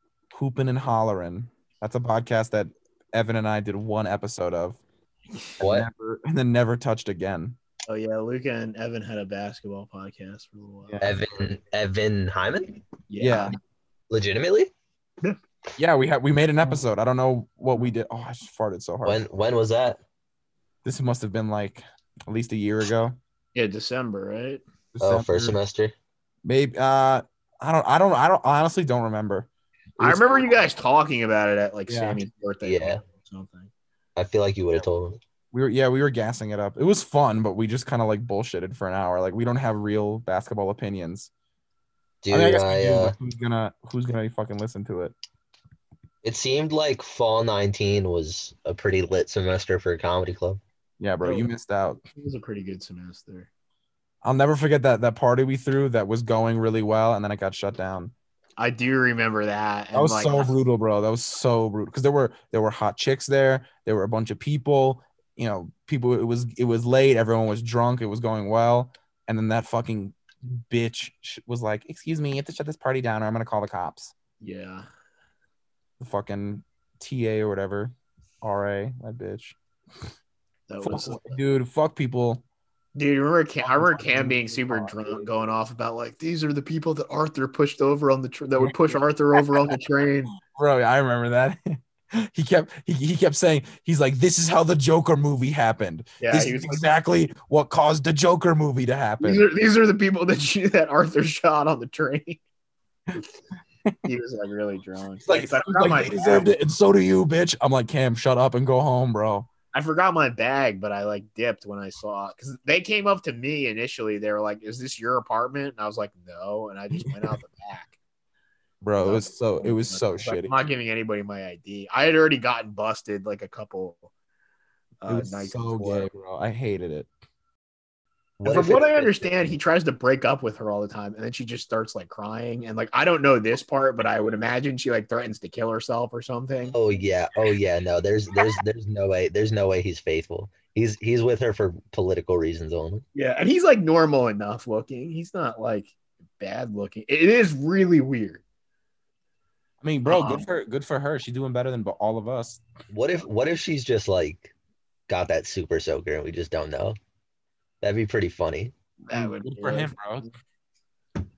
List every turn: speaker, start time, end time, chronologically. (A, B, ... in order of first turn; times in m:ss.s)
0:00.3-0:04.8 A
0:05.6-0:05.9 B
0:05.6-0:07.6 A
0:07.9-0:11.0 C
0:10.9-0:11.2 A
0:11.0-0:12.8 B
0:13.1-0:13.6 C
0:13.2-0:13.5 A
0:14.1-0:14.7 B
0:15.8-0:19.2 A
0:19.0-0:20.0 B
0:20.8-0:23.2 A
0:23.6-0:24.6 C
0:25.0-0:25.6 A
0:25.0-0:25.9 B
0:26.4-0:29.5 A
0:30.0-0:30.6 A
0:30.0-0:33.7 C
0:31.9-0:32.2 A
0:32.6-0:33.0 B
0:34.2-0:35.2 B
0:35.5-0:41.3 A
0:42.2-0:43.1 B
0:42.3-0:45.1 A
0:46.2-0:50.6 B
0:51.0-0:52.0 A
0:51.2-0:51.5 C
0:52.1-0:53.5 C
0:54.2-0:58.1 A
0:58.6-1:00.5 C
0:59.9-1:14.1 A
1:14.4-1:14.9 C
1:16.0-1:19.6 A
1:20.7-1:21.4 C
1:20.8-1:22.4 A
1:22.9-1:30.4 C
1:23.6-1:25.3 A
1:28.6-1:29.7 A
1:30.5-1:39.4 A
1:36.2-1:36.8 C
1:39.2-1:42.4 C
1:44.0-1:46.5 C
1:45.2-1:49.5 A
1:49.7-1:57.9 C
1:58.8-2:00.5 A
1:59.0-2:04.1 C
2:05.0-2:06.1 C
2:05.1-2:07.1 A
2:08.4-2:09.3 B
2:08.4-2:16.8 C
2:16.7-2:23.0 B
2:23.1-2:28.4 C
2:29.8-2:32.6 A
2:30.1-2:30.4 C
2:32.9-2:34.5 B
2:35.1-2:37.0 B
2:37.8-2:38.7 B
2:39.1-2:39.9 C
2:39.1-2:40.3 A